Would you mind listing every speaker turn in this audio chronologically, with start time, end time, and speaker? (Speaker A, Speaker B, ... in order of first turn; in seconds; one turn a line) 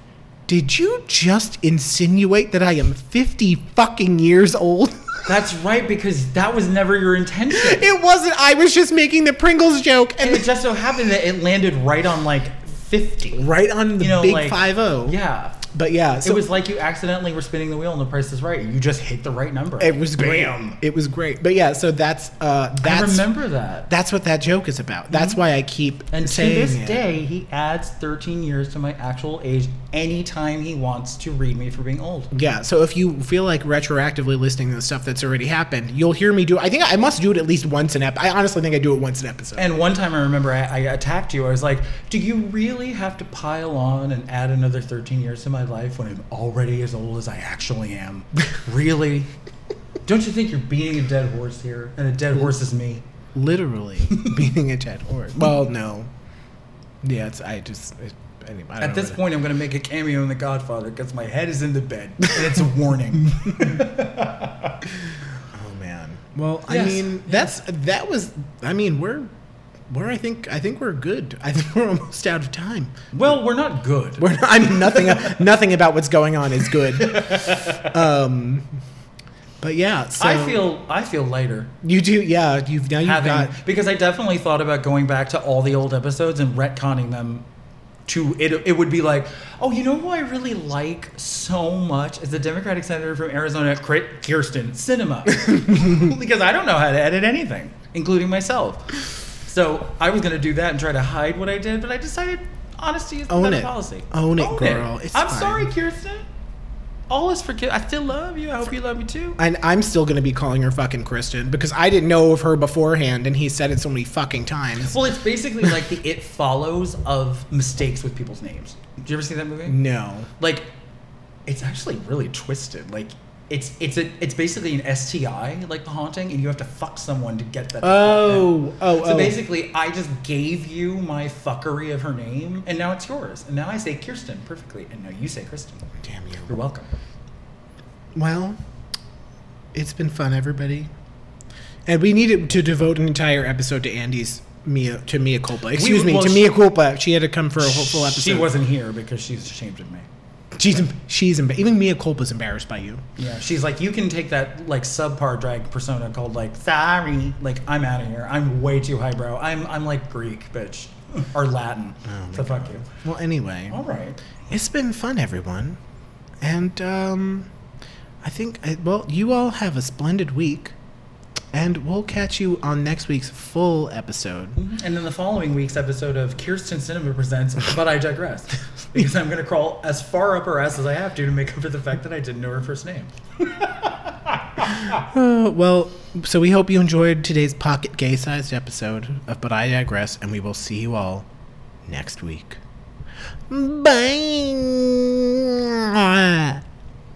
Speaker A: 0.5-5.1
Speaker B: 5.2-7.9
Speaker A: 7.5-10.5
Speaker B: 10.2-13.4
Speaker A: 13.3-15.2
Speaker B: 14.0-15.6
Speaker A: 15.7-16.5
Speaker B: 16.2-20.8
Speaker A: 19.8-23.3
Speaker B: 22.8-23.9
Speaker A: 23.9-27.0
Speaker B: 26.1-32.3
Speaker A: 32.3-39.8
Speaker B: 39.5-49.3
Speaker B: 50.0-53.0
Speaker A: 53.3-56.1
Speaker B: 54.1-54.4
Speaker A: 57.0-59.2
Speaker B: 58.8-64.8
Speaker A: 65.5-69.3
Speaker B: 66.7-67.6
Speaker A: 69.9-72.9
Speaker B: 73.1-75.4
Speaker A: 74.2-78.7
Speaker B: 76.6-78.0
Speaker A: 79.6-80.6
Speaker B: 80.2-81.7
Speaker A: 81.8-83.5
Speaker B: 83.0-87.5
Speaker B: 88.1-106.2
Speaker A: 95.5-96.1
Speaker A: 103.3-105.7
Speaker B: 107.1-109.4
Speaker A: 109.4-115.0
Speaker B: 114.8-119.8
Speaker A: 119.7-120.3
Speaker B: 120.4-120.7
Speaker B: 121.5-135.9
Speaker A: 127.8-129.4
Speaker A: 136.0-136.5
Speaker B: 136.5-136.9
Speaker A: 138.1-138.6
Speaker A: 139.7-140.9
Speaker A: 141.8-148.5
Speaker B: 145.7-146.6
Speaker B: 147.6-150.1
Speaker A: 150.5-153.0
Speaker B: 153.2-162.8
Speaker A: 162.1-163.8
Speaker B: 163.7-164.2
Speaker A: 164.5-165.8
Speaker A: 166.4-167.5
Speaker A: 168.2-170.7
Speaker A: 171.5-174.6
Speaker B: 174.6-185.0
Speaker A: 185.0-191.2
Speaker A: 191.8-192.6
Speaker A: 193.5-196.6